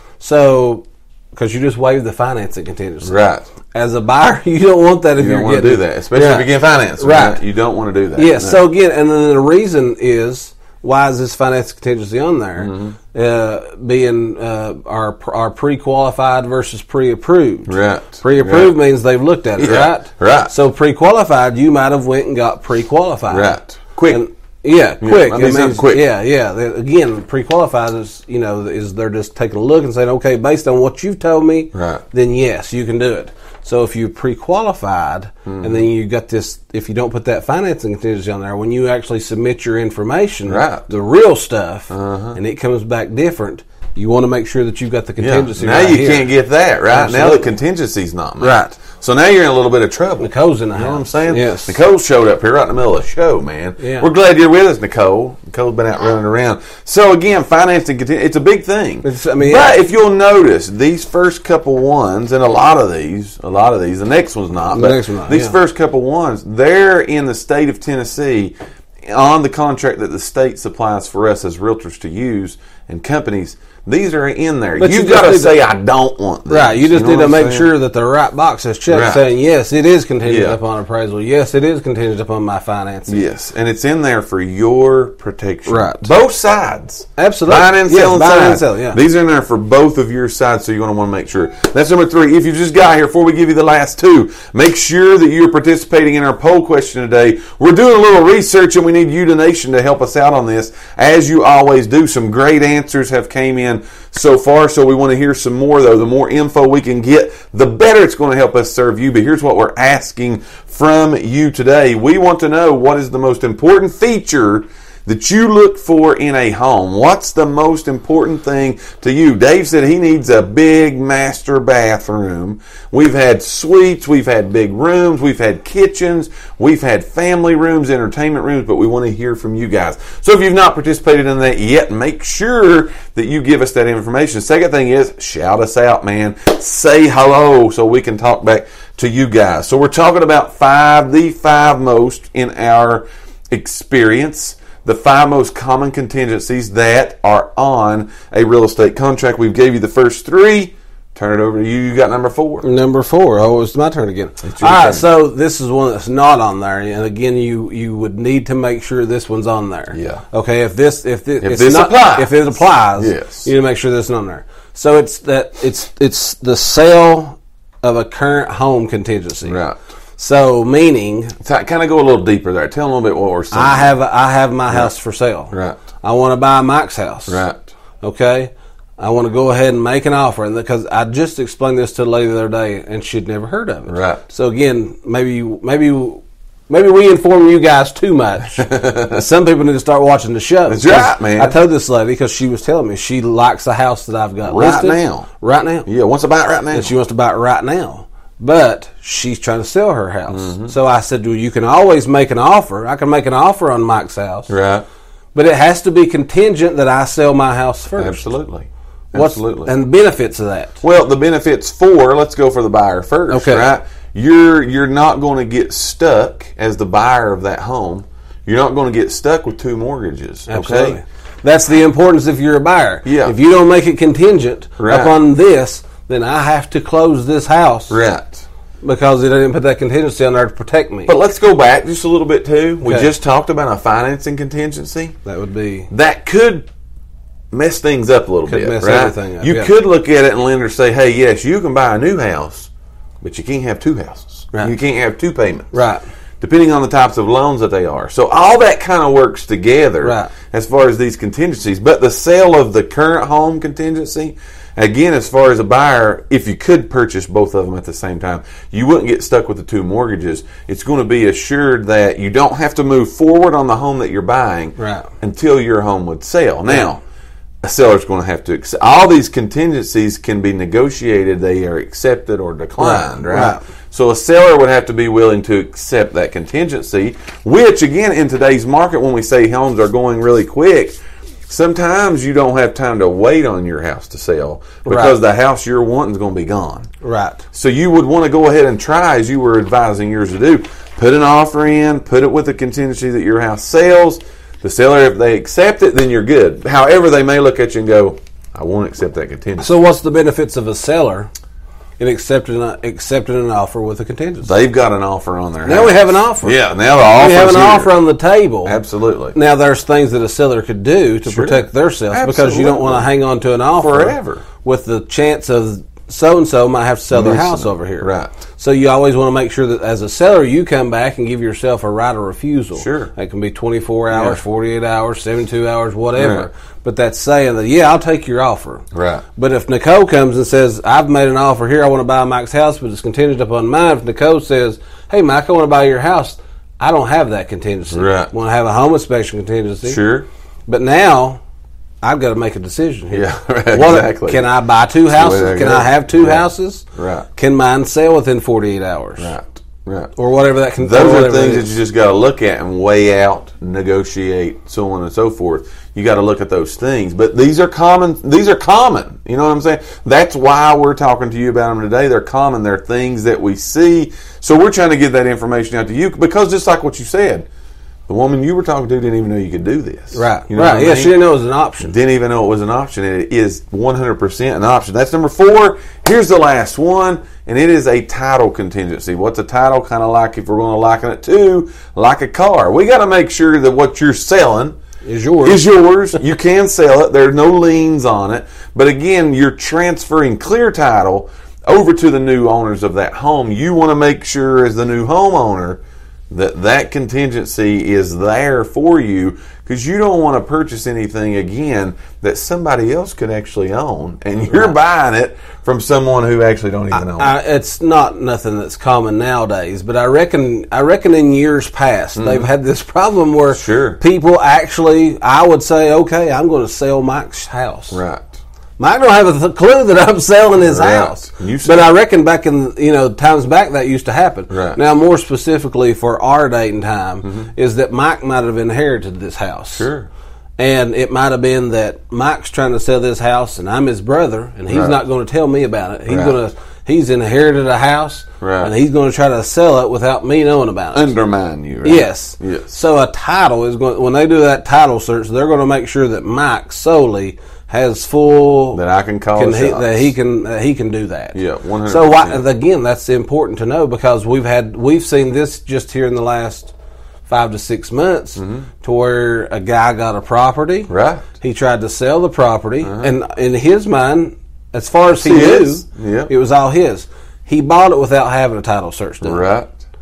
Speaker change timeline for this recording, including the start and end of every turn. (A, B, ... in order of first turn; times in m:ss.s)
0:00.2-0:03.1 A
0:03.0-0:03.5 B
0:03.7-0:07.4 A
0:05.2-0:08.6 B
0:08.2-0:23.6 A
0:12.6-0:13.0 B
0:17.6-0:18.8 B
0:19.6-0:20.5 B
0:23.3-0:24.2 B
0:24.1-0:46.3 A
0:25.0-0:26.0 B
0:31.7-0:32.0 B
0:35.5-0:35.8 B
0:40.4-0:40.9 B
0:41.9-0:42.4 B
0:45.2-1:17.7 B
0:46.9-0:47.5 A
0:48.4-0:48.8 A
0:50.2-0:51.8 A
0:53.8-0:54.0 A
0:59.0-0:59.8 A
1:04.7-1:05.6 A
1:14.8-1:15.6 A
1:16.5-1:23.2 A
1:18.9-1:19.2 B
1:20.2-1:20.6 B
1:23.1-2:32.7 B
1:25.7-1:26.1 A
1:27.2-1:29.0 A
2:32.6-2:49.6 A
2:34.4-2:35.1 B
2:39.9-2:40.2 B
2:41.4-2:43.5 B
2:49.4-2:49.8 B
2:50.2-2:51.4 A
2:51.4-2:53.9 B
2:53.5-2:57.4 A
2:55.5-2:55.8 B
2:57.3-2:57.7 B
2:58.0-3:15.9 A
3:03.9-3:04.2 B
3:08.6-3:09.2 B
3:10.7-3:11.6 B
3:14.4-3:15.3 B
3:15.8-3:16.9 B
3:16.7-3:24.5 A
3:20.3-3:20.7 B
3:24.5-3:24.8 B
3:25.3-3:28.2 A
3:28.0-3:29.7 B
3:29.1-3:30.8 A
3:30.8-3:41.0 B
3:33.3-3:33.6 A
3:40.5-3:48.0 A
3:43.0-3:43.4 B
3:44.8-3:45.1 B
3:47.9-3:48.4 B
3:48.8-3:51.1 A
3:51.0-3:55.2 B
3:52.8-3:53.1 A
3:55.2-3:55.9 A
3:55.9-3:56.7 B
3:57.5-4:02.7 B
3:58.5-3:59.7 A
4:03.2-4:05.8 B
4:05.7-4:06.0 A
4:06.4-4:27.0 B
4:10.0-4:10.3 A
4:24.8-4:25.1 A
4:27.6-4:46.9 B
4:32.8-4:33.6 A
4:44.8-4:45.2 A
4:47.0-4:47.4 A
4:47.5-4:59.7 B
4:59.6-5:01.3 A
5:02.0-5:04.5 A
5:04.4-5:08.0 B
5:05.6-5:08.8 A
5:08.6-5:09.4 B
5:09.3-5:28.8 A
5:11.2-5:13.1 B
5:13.8-5:14.4 B
5:17.1-5:18.3 B
5:22.8-5:23.1 B
5:24.1-5:24.4 B
5:26.2-5:26.5 B
5:28.9-5:29.2 B
5:29.4-5:40.0 A
5:37.9-5:38.3 B
5:39.8-5:40.3 B
5:40.7-5:41.4 A
5:42.0-5:46.8 A
5:43.1-5:44.5 B
5:45.1-5:47.2 B
5:47.4-5:49.3 A
5:49.2-5:50.1 B
5:50.2-5:51.7 A
5:50.8-6:07.5 B
6:08.1-6:11.2 B
6:10.1-6:11.9 A
6:11.8-6:24.8 B
6:25.0-6:25.6 A
6:25.4-6:47.4 B
6:44.5-6:44.7 A
6:46.9-6:58.0 A
6:52.1-6:52.5 B
6:53.5-6:54.0 B
6:57.9-6:58.4 B
6:58.8-7:09.9 A
7:00.6-7:01.9 B
7:04.5-7:04.8 B
7:07.2-7:07.5 B
7:09.8-7:10.1 B
7:10.6-7:21.1 A
7:14.7-7:15.0 B
7:16.1-7:16.4 B
7:18.4-7:18.7 B
7:20.9-7:22.7 B
7:21.8-7:28.8 A
7:28.7-7:30.1 B
7:29.3-7:36.7 A
7:31.3-7:32.4 B
7:37.3-7:49.5 A
7:38.4-7:38.7 B
7:40.9-7:41.3 B
7:42.8-7:43.1 B
7:45.1-7:46.3 B
7:49.2-7:49.7 B